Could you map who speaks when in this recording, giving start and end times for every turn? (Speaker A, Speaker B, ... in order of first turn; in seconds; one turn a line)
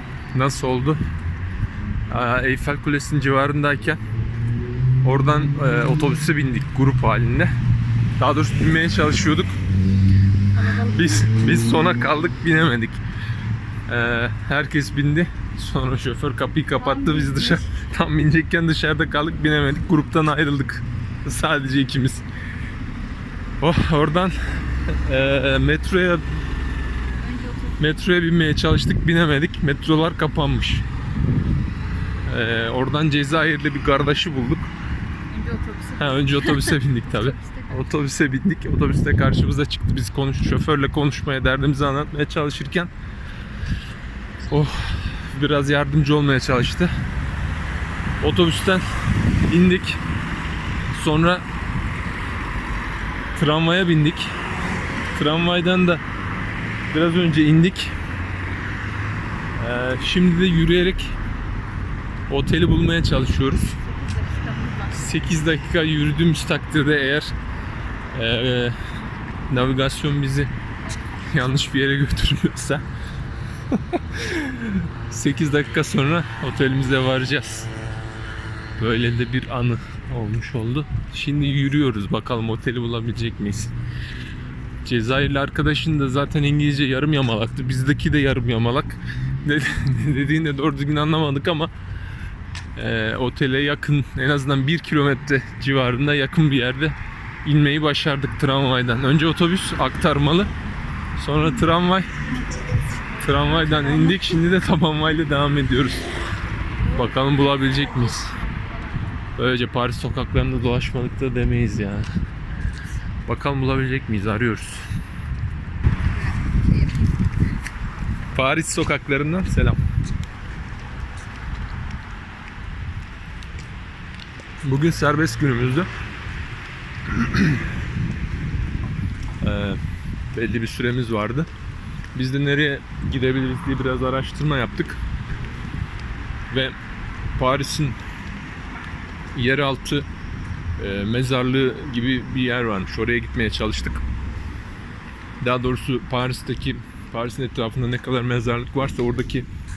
Speaker A: 0.3-1.0
Speaker A: 2.1-4.0
Speaker A: 5.0-7.5
Speaker A: 8.2-9.5
Speaker B: 10.6-11.1
Speaker A: 10.7-13.0
Speaker A: 13.9-22.2
Speaker B: 16.8-17.6
Speaker A: 23.6-26.2
Speaker B: 27.2-27.9
Speaker A: 27.8-30.9
Speaker A: 32.2-34.7
Speaker B: 35.3-38.0
Speaker A: 36.0-42.9
Speaker A: 44.5-46.9
Speaker A: 48.2-50.0
Speaker A: 50.9-51.5
Speaker A: 53.4-54.3
Speaker A: 55.1-56.0
Speaker A: 56.9-58.0
Speaker A: 59.6-61.1
Speaker A: 62.3-63.8
Speaker B: 63.8-65.1
Speaker A: 64.9-67.3
Speaker A: 68.1-68.8
Speaker A: 69.5-70.5
Speaker A: 71.1-72.8
Speaker A: 73.7-77.7
Speaker A: 78.8-83.7
Speaker A: 84.8-91.7
Speaker A: 92.8-100.5
Speaker A: 101.2-102.1
Speaker A: 103.2-106.1
Speaker A: 106.8-108.4
Speaker B: 107.7-109.0
Speaker A: 109.3-112.1
Speaker A: 113.3-114.9
Speaker A: 118.3-119.8
Speaker A: 124.6-125.9
Speaker A: 127.1-127.6
Speaker A: 129.4-129.8
Speaker A: 130.3-131.5
Speaker A: 132.2-135.0
Speaker A: 136.5-136.8
Speaker A: 137.4-138.0
Speaker A: 139.3-140.1
Speaker A: 140.8-144.0
Speaker A: 145.4-149.5